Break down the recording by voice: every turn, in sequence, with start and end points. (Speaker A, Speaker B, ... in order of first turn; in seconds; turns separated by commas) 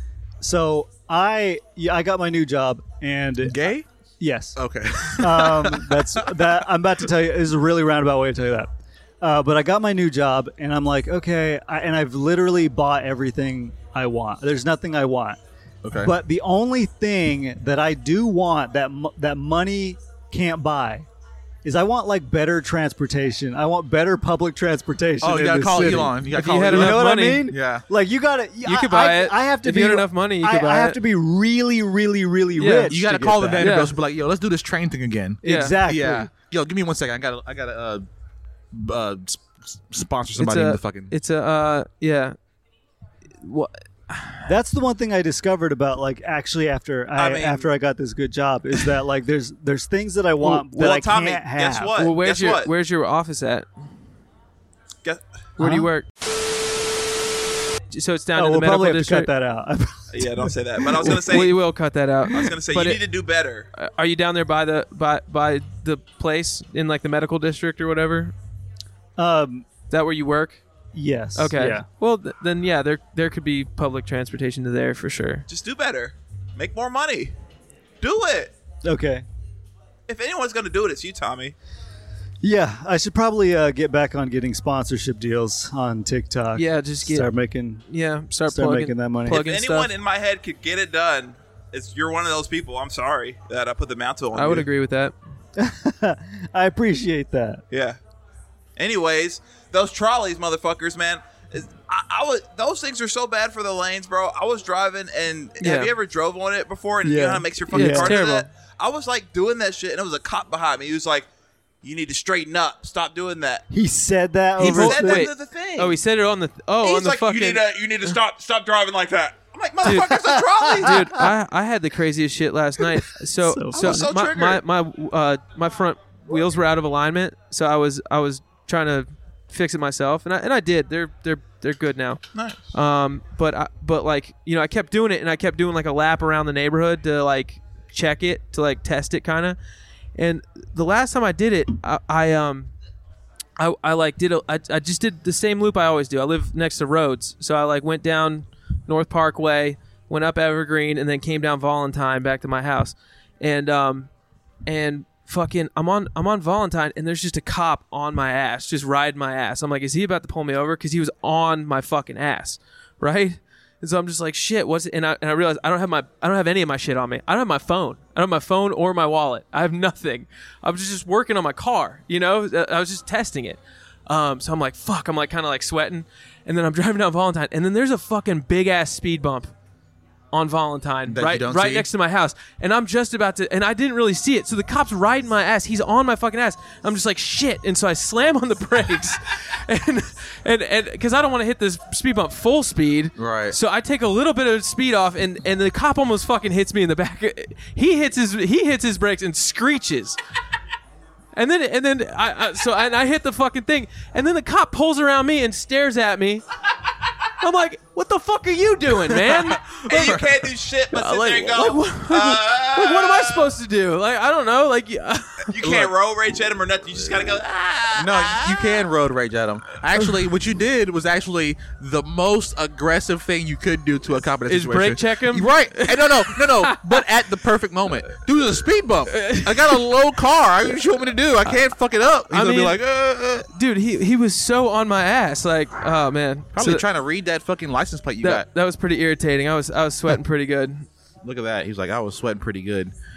Speaker A: 0.4-3.6, Speaker B: 3.4-3.9, Speaker A: 4.2-4.6, Speaker B: 4.6-6.5, Speaker A: 5.2-15.4, Speaker B: 15.8-16.1, Speaker A: 16.0-21.1, Speaker A: 21.6-33.8, Speaker B: 25.2-27.9, Speaker C: 26.3-27.5, Speaker C: 28.6-31.0, Speaker C: 32.6-32.9, Speaker B: 32.9-38.0, Speaker C: 33.6-33.9, Speaker A: 35.4-36.3, Speaker C: 35.4-35.8, Speaker B: 38.7-41.1, Speaker C: 40.4-42.4, Speaker C: 43.4-44.4, Speaker A: 44.4-51.9, Speaker D: 47.1-47.7, Speaker C: 50.4-50.7, Speaker D: 50.7-52.7, Speaker C: 52.0-53.7, Speaker C: 55.6-56.1, Speaker A: 55.6-55.9, Speaker C: 57.9-59.3, Speaker A: 58.4-61.2, Speaker D: 60.1-61.6, Speaker C: 61.1-63.0, Speaker D: 62.3-63.7, Speaker C: 63.8-68.3, Speaker A: 69.2-69.6, Speaker C: 69.9-70.6, Speaker A: 70.9-71.8, Speaker C: 71.3-75.5, Speaker D: 75.5-77.3, Speaker D: 78.0-78.5, Speaker A: 78.8-79.2, Speaker D: 80.1-81.5, Speaker A: 82.4-87.8, Speaker C: 86.5-87.3, Speaker C: 87.9-89.9, Speaker A: 88.5-89.4, Speaker D: 89.3-94.7, Speaker C: 94.3-95.1, Speaker A: 95.6-97.6, Speaker D: 97.7-98.0, Speaker D: 98.8-111.3, Speaker C: 105.6-105.9, Speaker A: 107.0-108.1, Speaker C: 107.7-108.5, Speaker D: 111.8-113.6, Speaker A: 113.7-115.3, Speaker C: 114.6-117.6, Speaker D: 114.6-116.0, Speaker D: 116.8-121.2, Speaker C: 119.8-120.2, Speaker A: 119.9-121.2, Speaker C: 120.8-139.6, Speaker A: 123.4-124.1, Speaker D: 123.7-124.6, Speaker D: 132.3-132.6, Speaker C: 140.2-142.7, Speaker C: 143.6-154.1, Speaker C: 154.7-179.5, Speaker C: 180.3-200.2, Speaker B: 181.1-181.9, Speaker B: 193.2-193.6, Speaker C: 201.4-206.4, Speaker C: 207.4-210.2, Speaker B: 209.1-210.3, Speaker D: 209.9-213.5, Speaker C: 210.9-215.6, Speaker D: 215.5-218.9, Speaker B: 215.6-215.9, Speaker B: 217.9-233.5, Speaker C: 224.5-227.0, Speaker C: 229.1-229.8, Speaker C: 232.3-232.8, Speaker C: 233.5-236.8, Speaker B: 236.5-238.4, Speaker C: 238.2-240.9, Speaker B: 241.2-242.9